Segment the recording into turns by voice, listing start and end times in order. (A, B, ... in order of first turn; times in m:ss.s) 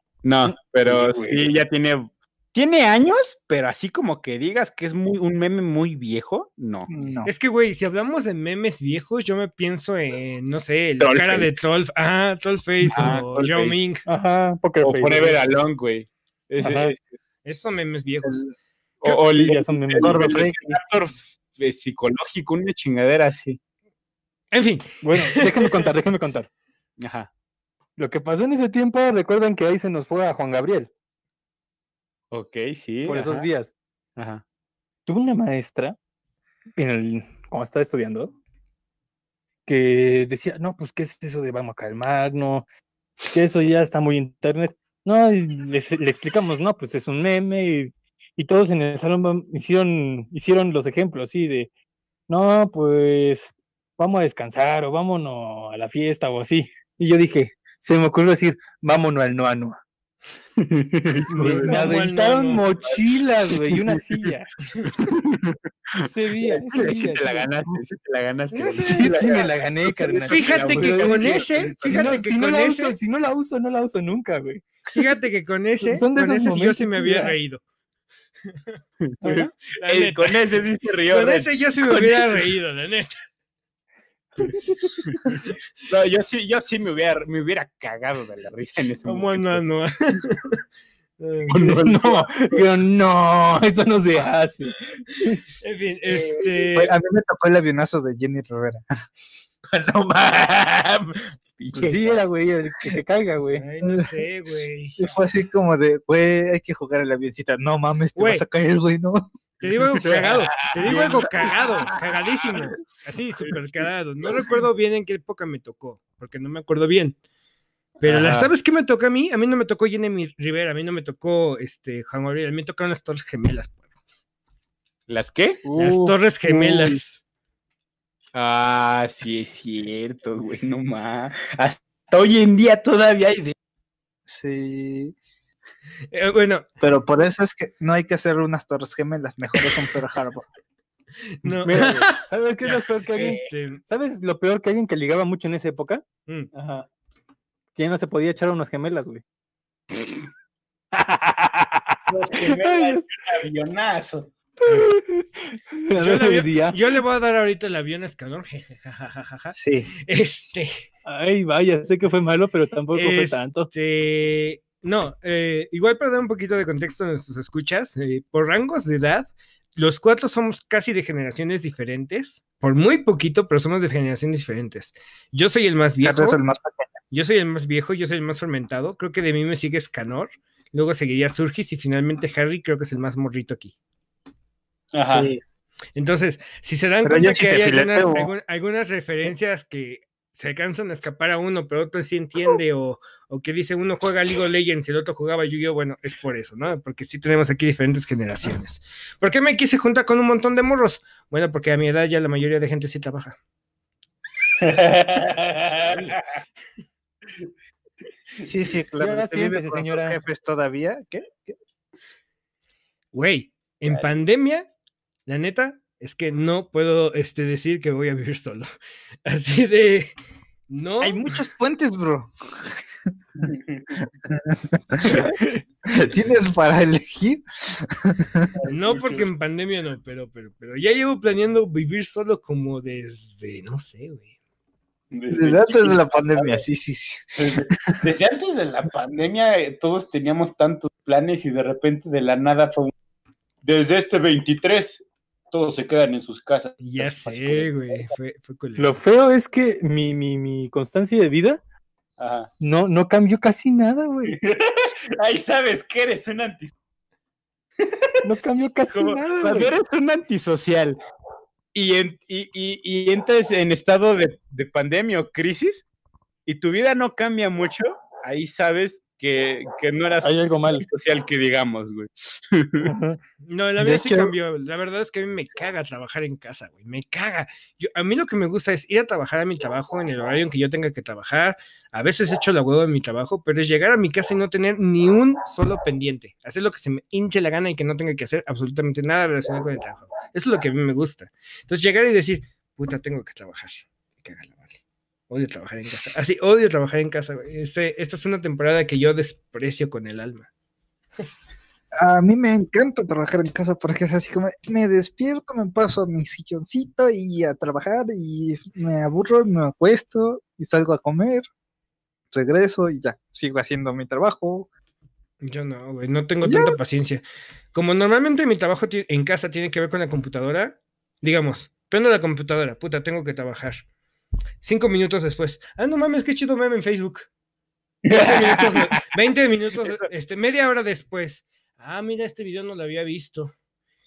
0:00.2-0:06.9 A
0:00.4-0:01.5 B
0:06.9-0:07.3 C
0:07.3-0:14.0 D
0:11.0-0:11.5 A
0:12.9-0:13.8 A
0:14.1-0:15.4 B
0:14.8-0:17.1 A
0:16.6-0:16.9 B
0:17.4-0:18.4 D
0:18.2-0:18.5 C
0:19.0-0:23.6 A
0:19.1-0:20.4 B
0:20.0-0:20.8 C
0:24.5-0:25.8 D
0:25.0-0:26.5 B
0:27.0-0:27.3 A
0:28.0-0:30.9 B
0:32.3-0:33.5 A
0:33.1-0:33.7 B
0:34.2-0:34.4 A
0:35.1-0:36.0 B
0:36.8-0:38.4 B
0:39.7-0:42.6 B
0:43.3-0:51.7 B
0:52.3-0:59.8 B
1:00.6-1:01.9 A
1:01.1-1:04.5 B
1:01.4-1:02.7 D
1:03.7-1:04.3 A
1:05.0-1:12.2 A
1:06.0-1:07.8 B
1:08.5-1:09.3 D
1:08.8-1:14.6 B
1:10.3-1:13.0 D
1:14.9-1:17.6 D
1:15.8-1:17.4 B
1:19.0-1:22.5 A
1:19.2-1:19.5 B
1:19.8-1:20.4 D
1:21.1-1:23.2 D
1:25.0-1:29.6 A
1:29.1-1:30.6 D
1:31.2-1:31.6 D
1:31.5-1:32.7 A
1:31.6-1:35.4 B
1:35.6-1:37.0 D
1:36.1-1:36.5 A
1:36.8-1:38.8 C
1:39.7-1:42.2 A
1:41.8-1:43.6 B
1:43.5-1:45.1 D
1:43.8-1:44.1 C
1:45.0-1:49.3 C
1:48.2-1:48.4 D
1:49.6-1:57.2 D
1:50.0-1:52.6 A
1:50.9-1:51.3 C
1:58.0-2:03.8 D
1:58.0-1:58.5 A
2:05.1-2:05.6 A
2:05.6-2:06.2 B
2:05.8-2:07.2 D
2:06.5-2:06.8 A
2:08.3-2:13.6 A
2:14.3-2:15.2 C
2:16.1-2:16.6 D
2:16.8-2:20.5 C
2:21.4-2:22.1 D
2:21.6-2:26.0 B
2:22.7-2:23.5 A
2:23.2-2:23.8 D
2:26.5-2:26.9 A
2:27.8-2:29.2 B
2:30.9-2:33.1 B
2:32.1-2:34.3 A
2:34.6-2:36.8 B
2:36.0-2:40.8 D
2:39.5-2:39.9 C
2:41.0-2:43.7 B
2:42.9-2:56.4 D
2:56.0-2:56.9 C
2:57.1-3:03.7 D
3:04.9-3:05.3 A
3:05.1-3:05.4 C
3:06.0-3:23.4 D
3:07.0-3:08.3 C
3:24.6-3:26.2 A
3:28.4-3:31.6 C
3:29.0-3:30.2 B
3:33.1-3:34.7 D
3:35.3-3:38.7 D
3:39.3-3:40.1 D
3:40.7-3:41.4 D
3:41.0-3:42.8 C
3:43.4-3:44.0 A
3:44.3-3:45.4 C
3:45.1-3:45.4 A
3:45.9-3:48.5 C
3:48.6-3:49.3 A
3:48.7-3:54.3 D
3:55.1-3:56.6 A
3:55.3-3:58.0 C
3:57.4-4:02.9 A
4:03.6-4:07.6 A
4:06.8-4:09.0 D
4:08.8-4:11.6 B
4:12.2-4:12.5 A
4:12.6-4:14.4 B
4:14.3-4:16.7 A
4:17.8-4:18.1 A
4:18.2-4:19.7 B
4:18.9-4:21.0 A
4:21.7-4:25.8 A
4:26.5-4:32.9 A
4:30.2-4:30.9 B
4:32.8-4:33.2 B
4:33.4-4:54.8 D
4:33.8-4:34.3 B
4:55.3-5:00.5 D
5:02.0-5:11.4 C
5:12.3-5:14.7 C
5:15.4-5:23.8 D
5:16.4-5:16.8 C
5:24.6-5:27.3 D
5:28.0-5:29.0 A
5:28.1-5:33.5 D